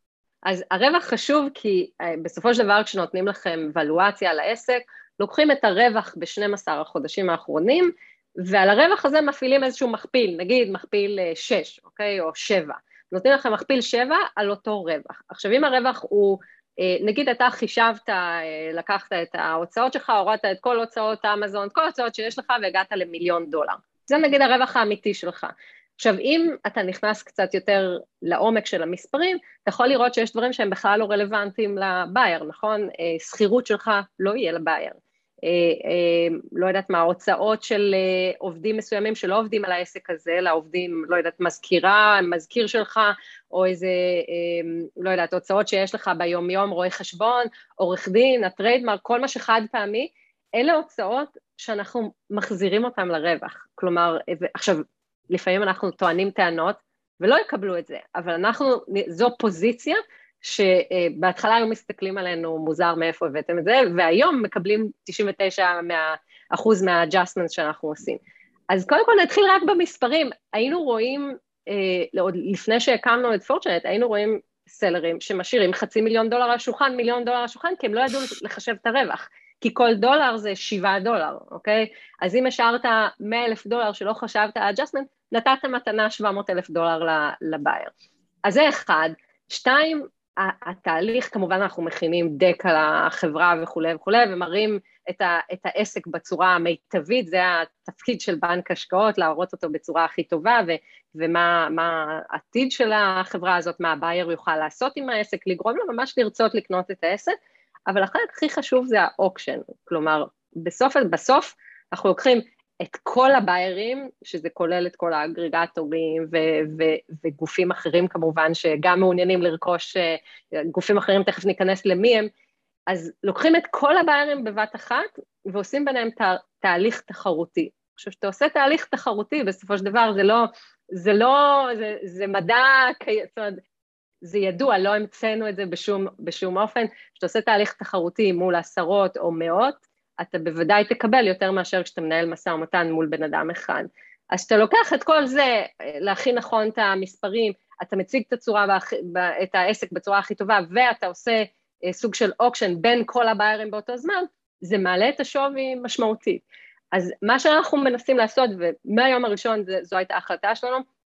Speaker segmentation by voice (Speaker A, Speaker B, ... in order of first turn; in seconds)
Speaker A: 0.5-87.9, 88.5-107.4, 107.9-122.3, 122.9-133.6, 134.2-160.8